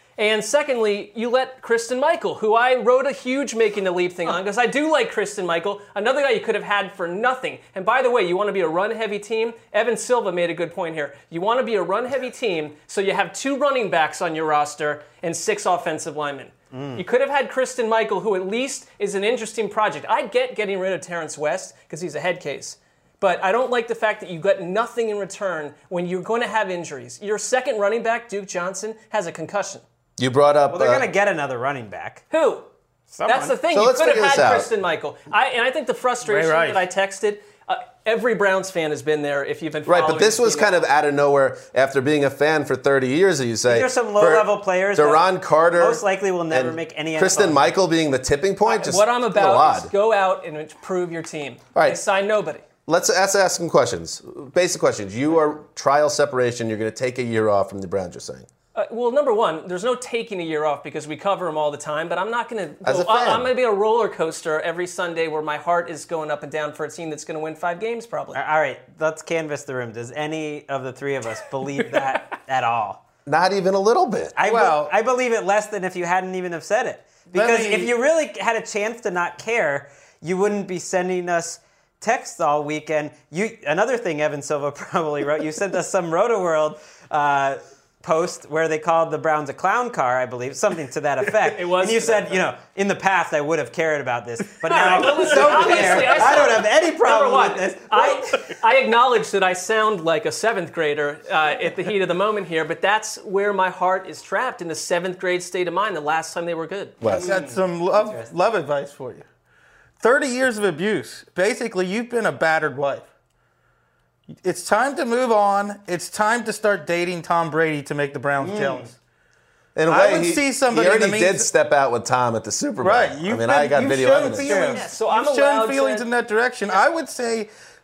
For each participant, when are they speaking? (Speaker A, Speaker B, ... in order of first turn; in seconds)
Speaker A: 0.2-29.8, 32.3-32.7, 33.2-40.8, 48.6-52.6, 58.7-68.4, 71.9-72.2, 91.5-92.4, 94.7-107.0, 124.5-126.1
Speaker B: 16.7-17.0, 30.7-32.2, 33.1-33.5, 43.7-47.6, 68.3-73.0, 74.3-98.2, 107.1-108.3, 118.4-118.9, 124.4-124.8
Speaker C: 30.2-31.1, 33.7-34.7, 39.9-49.9, 51.7-52.0, 52.9-58.5, 62.8-63.5, 73.2-74.3, 107.0-107.3, 119.7-124.6
Speaker D: 36.2-36.8, 74.4-74.9, 77.3-77.9, 95.0-96.1, 107.2-109.2, 110.0-113.1, 114.4-119.0, 119.9-121.5, 122.8-127.5